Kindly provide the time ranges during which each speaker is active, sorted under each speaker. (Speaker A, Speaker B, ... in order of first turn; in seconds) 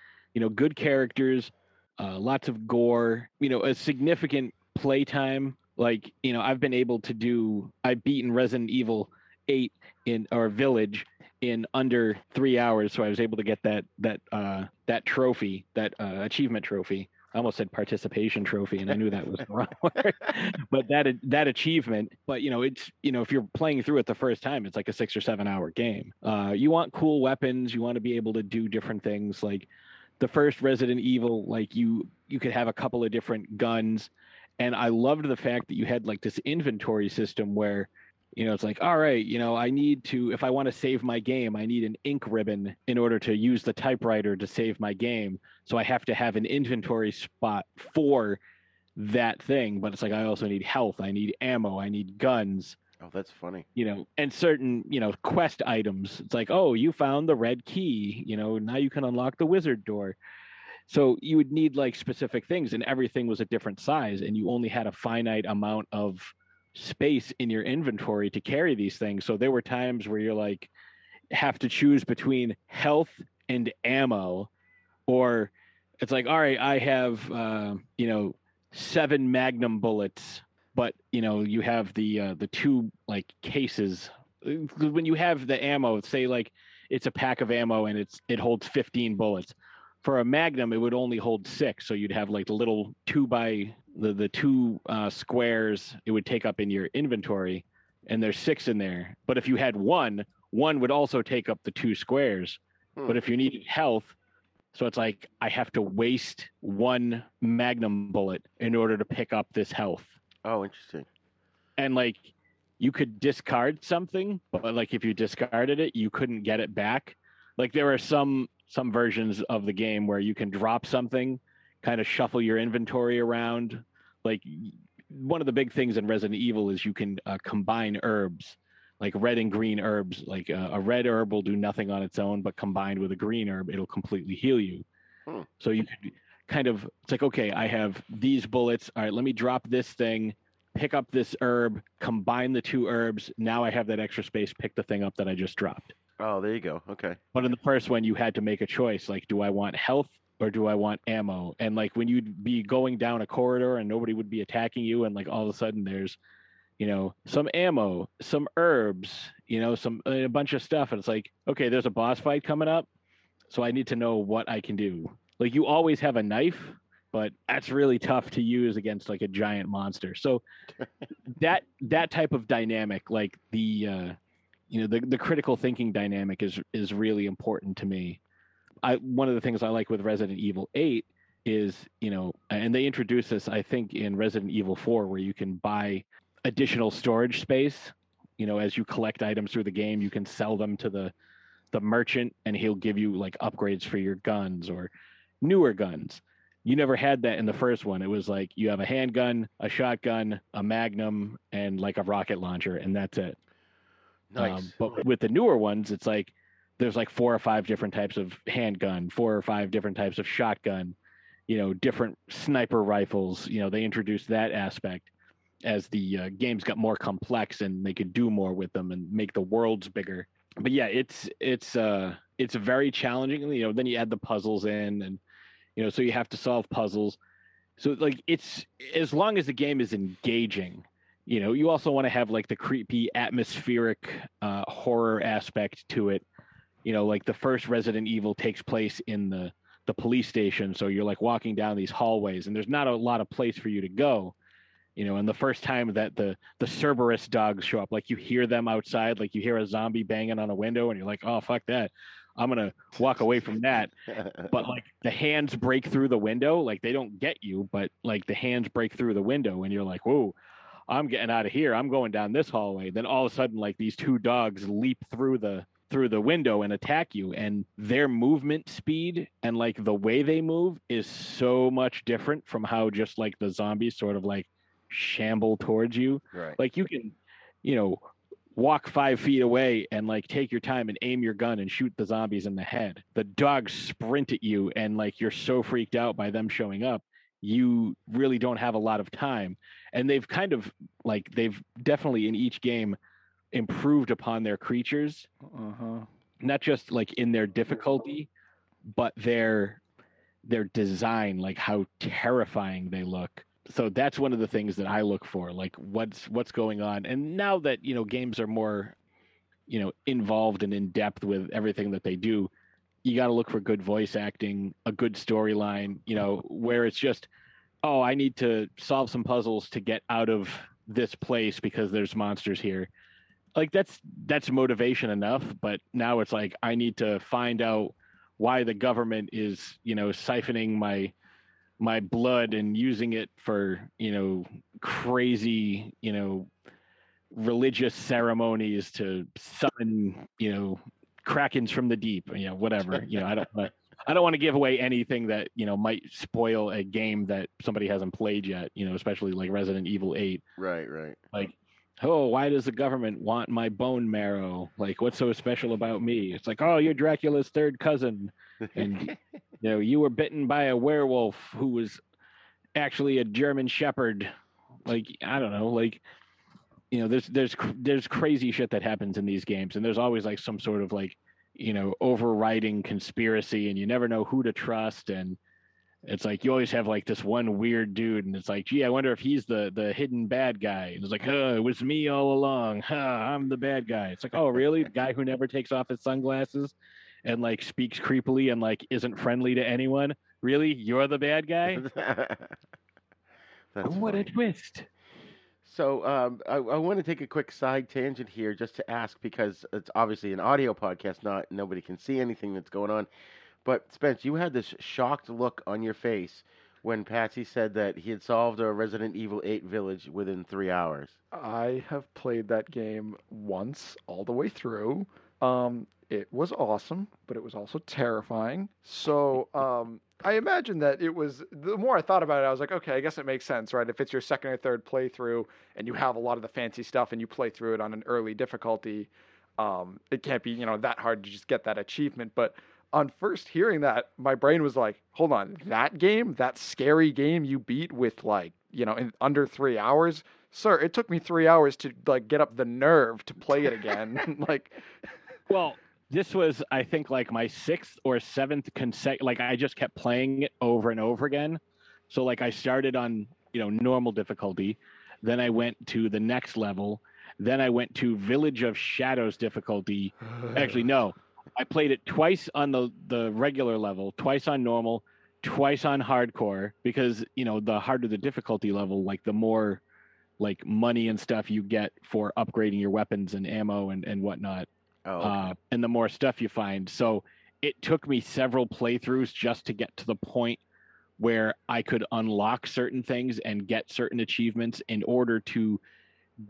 Speaker A: 0.3-29.7, 30.2-48.4, 49.0-52.8, 53.8-60.2, 60.9-70.7, 71.3-74.5, 75.1-104.2, 104.7-110.2, 111.8-134.8, 135.6-145.9, 147.3-156.2, 156.8-162.9, 163.5-170.4, 171.3-174.2, 174.7-178.2, 178.8-191.1, 191.7-194.9, 195.4-203.4, 204.4-211.0, 211.5-215.1, 215.7-225.2, 225.8-227.2, 227.8-236.2, 236.8-244.3, 245.0-253.9, 254.5-260.4, 260.9-293.0, 293.5-295.3, 296.4-298.3, 298.9-299.8, 300.4-308.9, 309.7-312.5, 313.0-317.3, 317.8-322.9, 323.6-331.1, 331.8-336.5, 337.3-350.4, 351.3-362.0, 362.8-364.3, 364.9-366.0, 366.9-375.4, 376.1-386.7, 387.2-391.8, 393.8-394.9, 445.5-469.8, 470.4-474.7, 475.2-480.6, 481.2-485.8
Speaker B: 53.0-53.7, 103.0-103.2, 110.4-111.1, 146.2-147.2, 204.3-204.8, 253.0-254.6, 276.3-276.6, 350.6-351.2, 358.7-359.2, 391.7-392.6, 393.7-394.3, 395.6-403.1, 403.6-411.2, 475.1-475.6
Speaker C: 295.5-296.1, 411.3-444.8